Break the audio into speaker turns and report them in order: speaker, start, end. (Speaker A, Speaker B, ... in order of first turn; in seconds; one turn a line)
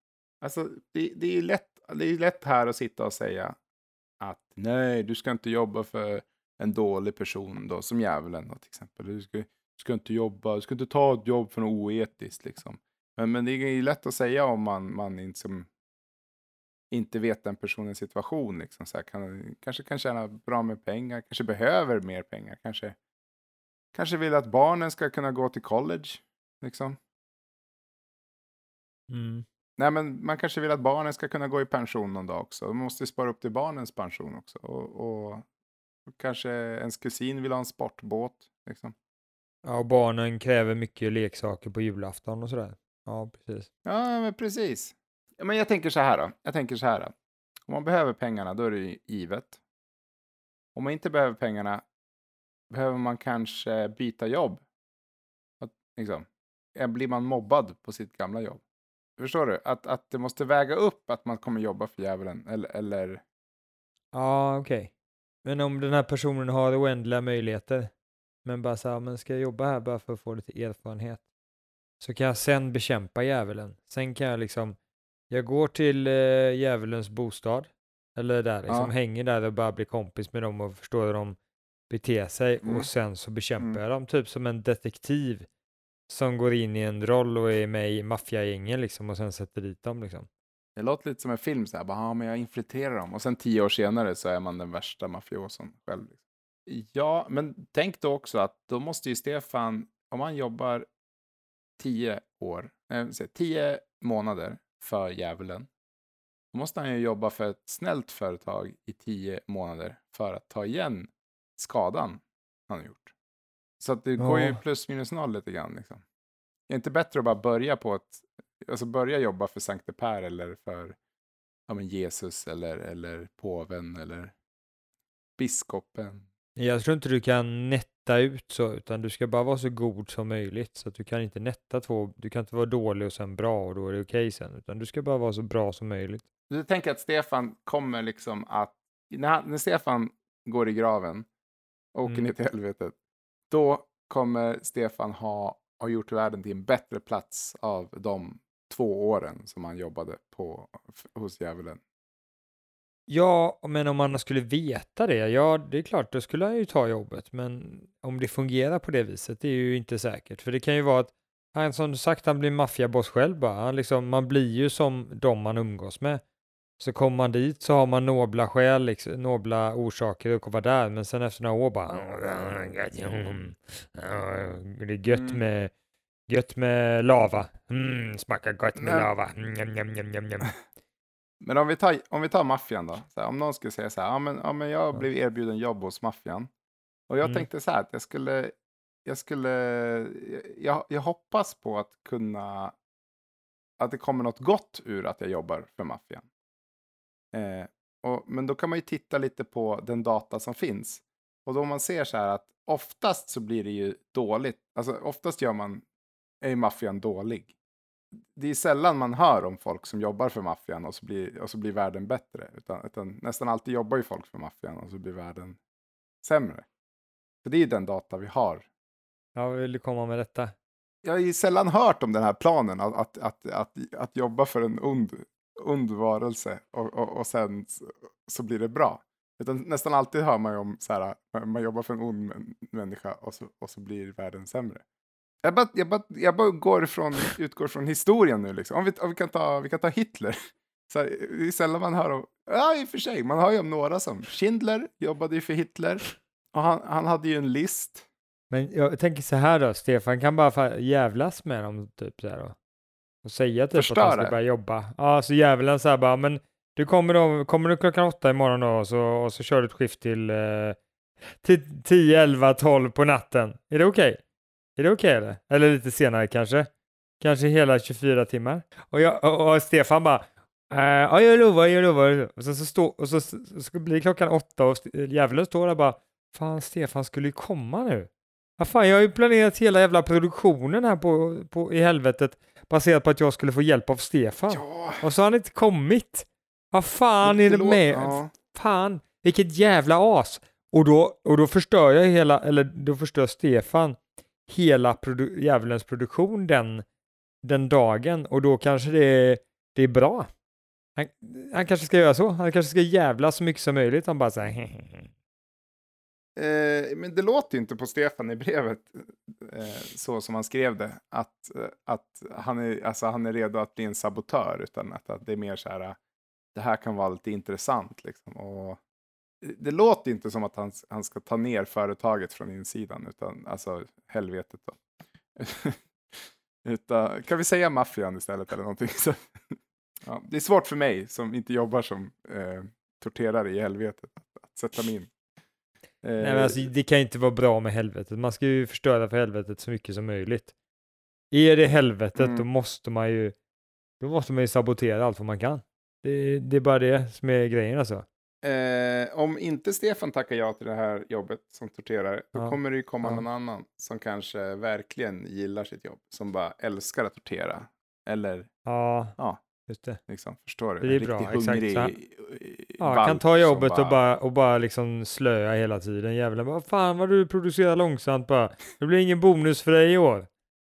Speaker A: 0.4-3.6
Speaker A: 4.2-15.7
Speaker A: 16.9-23.0
Speaker A: 23.9-27.0
Speaker B: 29.1-29.4
Speaker A: 29.8-35.5
Speaker A: 36.1-39.0
Speaker B: 39.6-43.7
Speaker A: 43.9-47.1
Speaker A: 47.7-49.6
Speaker A: 50.8-51.9
Speaker A: 52.7-54.6
Speaker A: 55.6-58.6
Speaker A: 59.2-63.2
Speaker B: 64.1-64.9
Speaker B: 65.4-67.9
Speaker B: 68.5-71.2
Speaker B: 72.0-74.8
Speaker B: 75.3-81.4
Speaker B: 81.9-85.5
Speaker A: 82.6-82.9
Speaker B: 86.1-90.3
Speaker A: 90.8-100.9
Speaker A: 101.8-105.7
Speaker A: 106.5-113.1
Speaker A: 113.8-116.0
Speaker B: 114.2-114.6
Speaker A: 116.7-121.0
Speaker A: 121.7-124.3
Speaker A: 125.4-126.2
Speaker B: 126.6-136.2
Speaker A: 136.5-141.3
Speaker A: 141.9-142.9
Speaker A: 143.5-151.8
Speaker B: 153.1-166.2
Speaker B: 166.8-175.7
Speaker A: 175.1-175.4
Speaker B: 176.3-180.5
Speaker A: 178.8-179.1
Speaker A: 181.4-186.5
Speaker A: 187.1-192.7
Speaker A: 193.8-196.3
Speaker A: 197.3-205.8
Speaker A: 206.4-207.5
Speaker A: 208.3-215.6
Speaker A: 216.2-216.7
Speaker A: 217.4-218.7
Speaker B: 219.4-220.5
Speaker A: 221.0-234.8
Speaker A: 235.4-240.4
Speaker A: 240.9-248.1
Speaker B: 248.5-252.6
Speaker B: 253.2-260.8
Speaker A: 253.8-254.4
Speaker B: 261.4-264.2
Speaker B: 264.8-296.9
Speaker A: 284.5-285.1
Speaker A: 287.2-288.3
Speaker B: 297.4-300.3
Speaker B: 301.0-305.1
Speaker A: 306.4-316.0
Speaker A: 316.5-318.8
Speaker A: 319.4-324.8
Speaker A: 325.4-335.1
Speaker A: 336.0-336.7
Speaker B: 336.2-340.5
Speaker B: 341.3-343.4
Speaker A: 342.2-342.5
Speaker B: 344.0-348.1
Speaker A: 348.4-358.5
Speaker B: 352.4-353.2
Speaker B: 358.6-359.2
Speaker B: 359.7-360.0
Speaker A: 360.1-364.0
Speaker B: 360.8-361.9
Speaker B: 362.8-370.3